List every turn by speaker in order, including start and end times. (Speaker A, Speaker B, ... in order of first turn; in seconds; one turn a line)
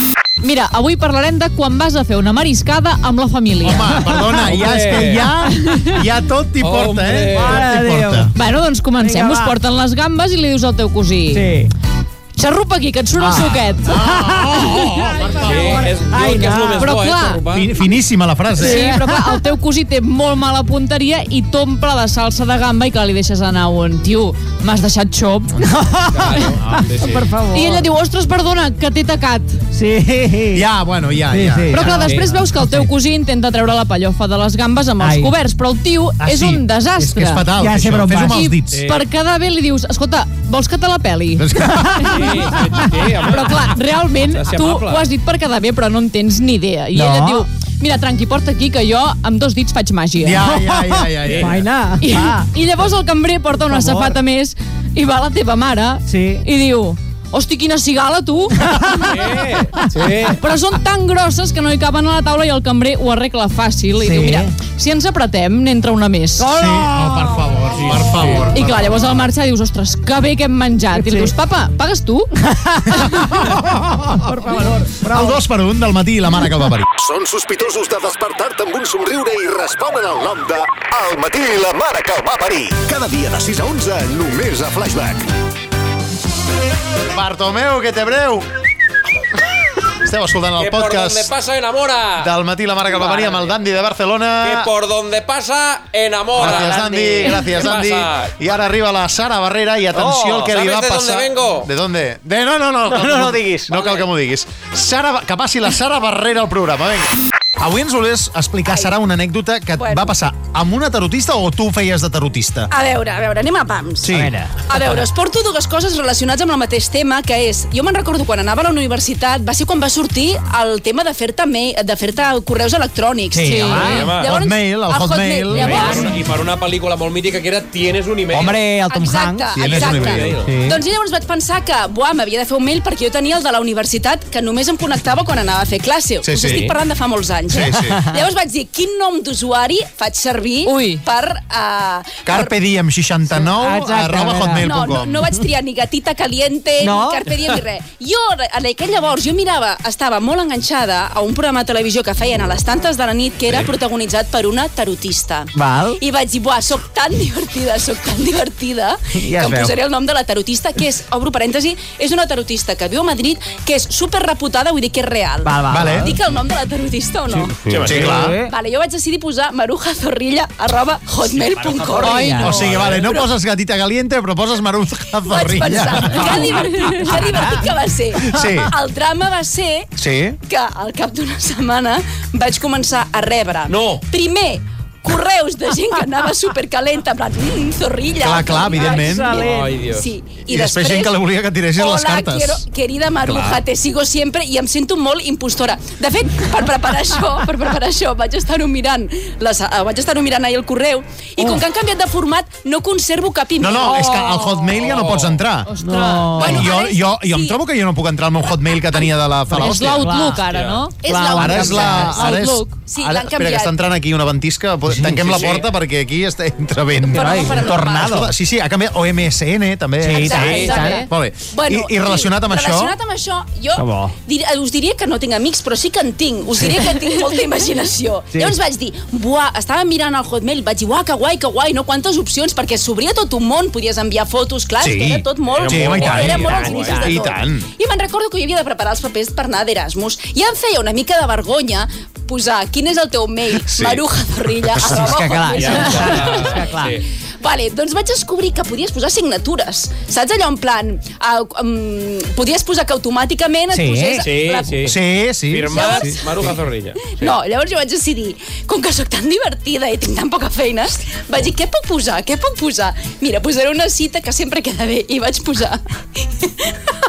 Speaker A: 0.4-4.0
Speaker B: 3.6-8.3
Speaker C: 4.5-5.3
Speaker A: 5.5-6.0
Speaker C: 6.6-7.6
Speaker D: 7.3-8.3
Speaker A: 8.3-11.4
Speaker D: 9.0-9.6
Speaker D: 11.3-11.7
Speaker A: 12.3-14.0
Speaker B: 13.2-15.9
Speaker D: 14.1-15.3
Speaker C: 15.4-17.7
Speaker D: 16.0-16.9
Speaker A: 16.8-17.4
Speaker B: 17.5-18.9
Speaker A: 18.6-25.6
Speaker D: 18.6-19.4
Speaker D: 25.6-27.9
Speaker C: 26.1-27.3
Speaker A: 27.5-29.6
Speaker D: 29.7-30.7
Speaker B: 30.5-32.1
Speaker D: 31.3-32.9
Speaker A: 31.7-37.5
Speaker C: 32.0-32.3
Speaker D: 35.0-35.3
Speaker B: 36.2-38.8
Speaker D: 37.5-38.5
Speaker A: 38.2-42.4
Speaker C: 38.7-39.1
Speaker B: 41.4-42.2
Speaker D: 41.8-42.0
Speaker C: 42.1-45.0
Speaker A: 43.2-50.5
Speaker D: 46.9-47.5
Speaker B: 50.2-51.6
Speaker D: 50.5-50.8
Speaker C: 51.2-51.6
Speaker D: 51.4-52.4
Speaker A: 52.0-59.1
Speaker D: 53.7-54.1
Speaker D: 56.1-56.4
Speaker D: 58.6-60.1
Speaker C: 59.1-60.4
Speaker A: 60.4-66.6
Speaker D: 64.0-64.5
Speaker D: 66.4-67.4
Speaker B: 66.5-69.2
Speaker C: 67.7-68.5
Speaker A: 68.5-72.3
Speaker D: 70.9-71.3
Speaker D: 72.5-73.0
Speaker A: 72.9-73.4
Speaker B: 73.1-74.2
Speaker D: 74.0-75.4
Speaker B: 75.1-76.9
Speaker E: 76.9-85.3
Speaker B: 87.1-88.5
Speaker B: 90.0-91.3
Speaker C: 90.6-92.3
Speaker B: 92.2-94.7
Speaker C: 92.9-93.5
Speaker C: 94.4-98.3
Speaker D: 96.4-97.5
Speaker B: 96.4-112.7
Speaker D: 99.9-100.5
Speaker C: 100.4-101.7
Speaker D: 102.8-103.7
Speaker F: 108.7-108.9
Speaker F: 109.8-110.1
Speaker F: 112.7-114.2
Speaker B: 114.0-114.3
Speaker D: 114.1-114.8
Speaker F: 114.7-126.1
Speaker D: 123.3-124.1
Speaker A: 123.4-124.1
Speaker C: 123.8-124.3
Speaker B: 124.2-126.0
Speaker D: 125.5-126.0
Speaker C: 125.6-128.5
Speaker D: 128.3-129.5
Speaker F: 128.9-142.5
Speaker B: 129.5-130.3
Speaker C: 129.7-130.5
Speaker D: 130.4-130.8
Speaker B: 136.2-136.7
Speaker C: 136.3-136.7
Speaker B: 137.5-138.0
Speaker A: 140.6-141.0
Speaker B: 142.2-145.2
Speaker D: 143.5-144.7
Speaker F: 144.6-173.3
Speaker D: 146.8-147.4
Speaker D: 155.5-156.0
Speaker D: 159.2-159.8
Speaker D: 165.4-166.1
Speaker B: 165.7-166.1
Speaker D: 167.3-168.5
Speaker C: 167.7-168.2
Speaker B: 167.8-168.3
Speaker D: 171.5-172.7
Speaker A: 172.0-172.5
Speaker B: 172.4-176.7
Speaker F: 175.2-191.2
Speaker D: 176.1-177.6
Speaker B: 178.2-178.7
Speaker B: 179.9-180.4
Speaker C: 183.7-184.0
Speaker B: 188.2-189.4
Speaker D: 188.8-189.7
Speaker C: 189.4-190.1
Speaker B: 190.5-192.6
Speaker F: 191.8-204.1
Speaker B: 193.2-193.6
Speaker B: 203.6-205.7
Speaker A: 203.9-204.7
Speaker C: 204.8-205.4
Speaker A: 205.7-206.6
Speaker D: 205.8-206.7
Speaker F: 206.3-207.6
Speaker B: 206.4-210.1
Speaker A: 209.5-212.8
Speaker D: 209.5-210.4
Speaker C: 210.5-210.9
Speaker F: 211.0-213.7
Speaker D: 211.1-211.9
Speaker B: 211.3-222.9
Speaker D: 214.9-215.4
Speaker C: 215.2-215.6
Speaker F: 217.0-218.3
Speaker D: 217.1-218.3
Speaker D: 220.0-221.1
Speaker F: 220.2-246.7
Speaker C: 220.4-220.7
Speaker A: 220.7-221.1
Speaker D: 223.7-224.1
Speaker B: 234.8-237.7
Speaker C: 235.5-237.1
Speaker B: 243.6-244.0
Speaker D: 244.8-247.0
Speaker C: 245.5-247.0
Speaker F: 247.4-255.0
Speaker D: 253.7-254.3
Speaker C: 254.2-254.9
Speaker B: 254.8-256.2
Speaker C: 255.5-257.4
Speaker F: 255.7-256.6
Speaker F: 257.1-266.9